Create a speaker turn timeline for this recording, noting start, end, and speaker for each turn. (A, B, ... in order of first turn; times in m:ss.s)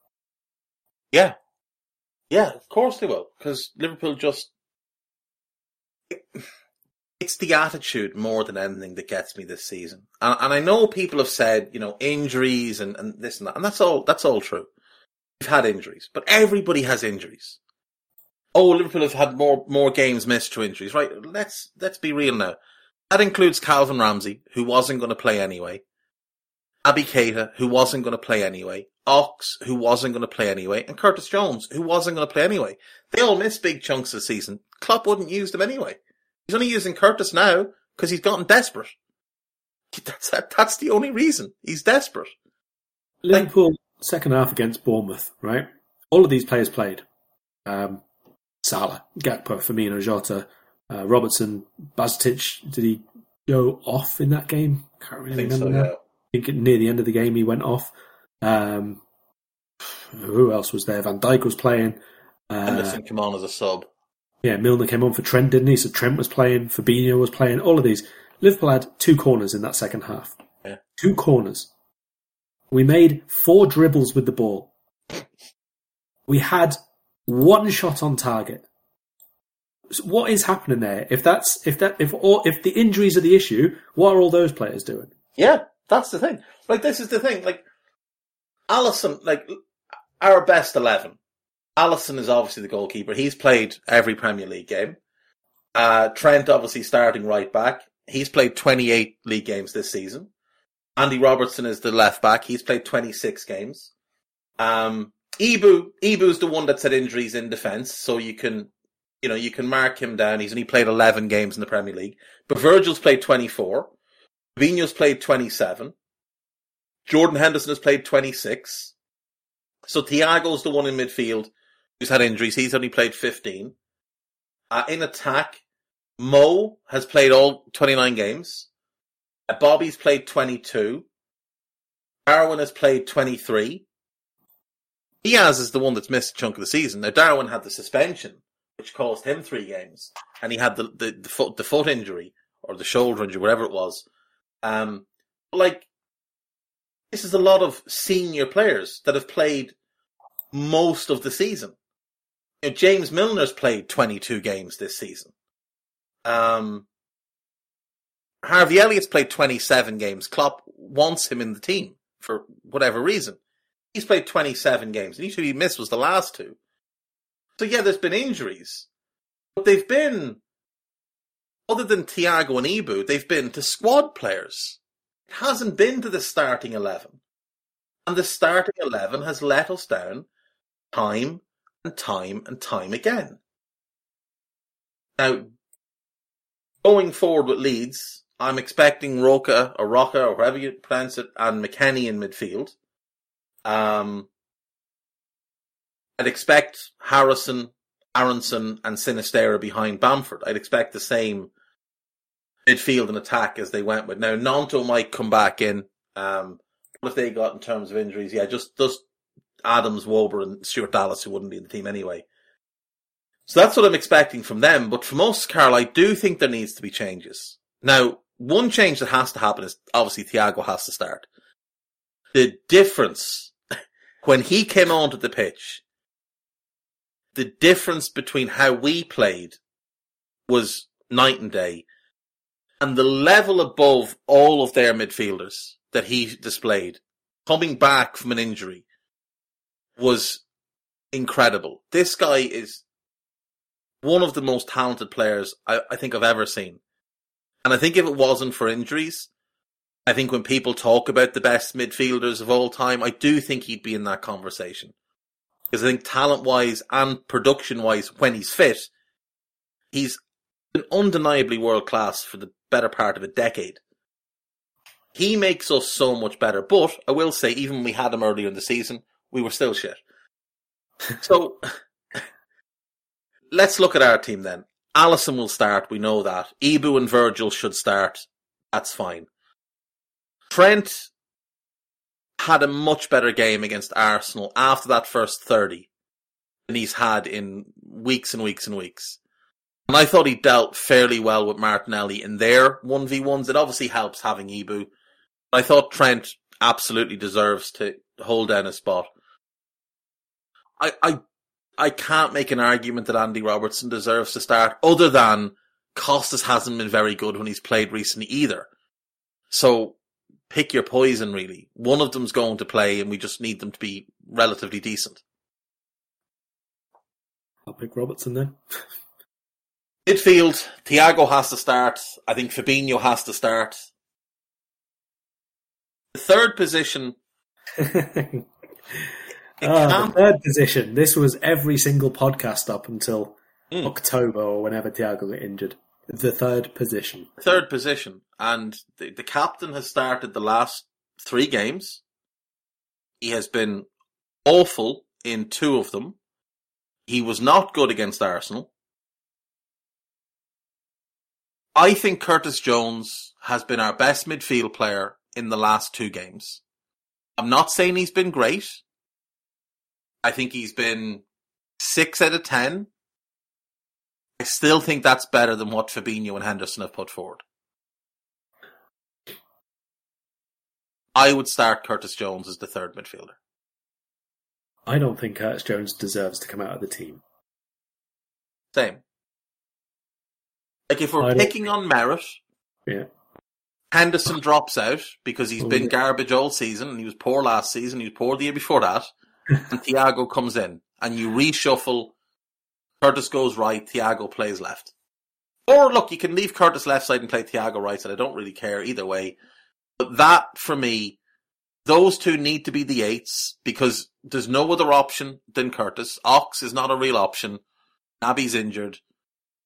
0:02.3-0:04.5 A
0:06.1-0:06.4 A
0:07.2-0:14.7 A
0:15.4-0:17.6 A
0:18.5-0:22.6 A
0:23.1-0:25.8 A
0:26.8-0:38.9 A
0:39.9-0:42.3 A
0:43.2-0:47.0 B
0:47.6-0:48.0 B
0:48.6-0:59.0 B
0:55.3-0:56.0 A
0:59.8-1:03.0 B
1:02.6-1:03.9 A
1:04.4-1:10.4 B
1:11.0-1:11.7 B
1:12.7-1:14.7 B
1:16.3-1:18.6 B
1:19.9-1:25.1 B
1:25.4-1:27.6 A
1:28.7-1:29.6 A
1:30.2-1:31.2 A
1:31.8-1:35.0 A
1:35.7-1:40.3 A
1:41.0-1:43.9 A
1:44.6-1:48.7 A
1:49.2-1:53.9 A
1:54.6-1:55.9 A
1:57.0-1:58.9 A
1:59.9-2:03.7 A
2:04.7-2:05.6 A
2:06.2-2:08.7 A
2:09.5-2:11.0 A
2:12.2-2:13.8 A
2:15.2-2:24.0 A
2:24.6-2:25.8 A
2:27.1-2:29.7 A
2:30.5-2:31.7 A
2:32.6-2:35.3 A
2:36.2-2:36.8 A
2:38.4-2:43.4 A
2:43.9-2:46.6 A
2:47.6-2:48.9 A
2:49.6-2:50.4 A
2:51.7-2:57.2 A
2:58.0-3:00.2 A
3:00.9-3:03.4 A
3:05.2-3:05.5 A
3:06.8-3:12.7 A
3:13.6-3:14.3 A
3:16.2-3:21.5 A
3:22.6-3:29.0 A
3:29.6-3:32.2 A
3:33.5-3:41.3 A
3:42.3-3:43.5 A
3:44.2-3:45.8 A
3:47.3-3:49.6 A
3:50.5-3:51.8 A
3:52.8-3:58.8 A
4:00.0-4:00.4 A
4:01.1-4:02.8 A
4:04.0-4:06.8 A
4:07.6-4:09.3 A
4:10.0-4:14.9 A
4:15.7-4:18.9 A
4:19.9-4:20.2 A
4:20.7-4:23.8 A
4:25.1-4:30.0 A
4:31.1-4:31.6 A
4:33.5-4:39.3 A
4:40.5-4:41.1 A
4:42.4-4:45.9 A
4:46.7-4:49.2 A
4:49.9-4:54.9 A
4:55.5-4:59.1 A
5:00.8-5:01.2 A
5:01.8-5:08.7 A
5:09.5-5:10.0 A
5:10.5-5:15.2 A
5:17.6-5:18.6 B
5:20.0-5:23.8 A
5:26.1-5:27.1 A
5:27.8-5:29.1 B
5:29.6-5:30.1 A
5:29.6-5:37.3 B
5:37.4-5:42.0 A
5:43.2-5:43.9 A
5:44.4-5:46.2 A
5:47.1-5:48.7 A
5:51.7-5:56.6 A
5:57.4-5:58.8 A
6:00.2-6:01.2 A
6:01.8-6:02.9 A
6:04.4-6:07.4 A
6:11.1-6:13.4 A
6:14.8-6:17.2 B
6:18.7-6:19.0 A
6:20.9-6:22.4 A
6:21.2-6:21.5 B
6:23.9-6:29.1 A
6:25.6-6:25.9 B
6:29.7-6:32.1 A
6:33.0-6:34.9 A
6:35.7-6:39.4 A
6:40.0-6:41.2 A
6:41.8-6:47.6 A
6:48.2-6:49.0 A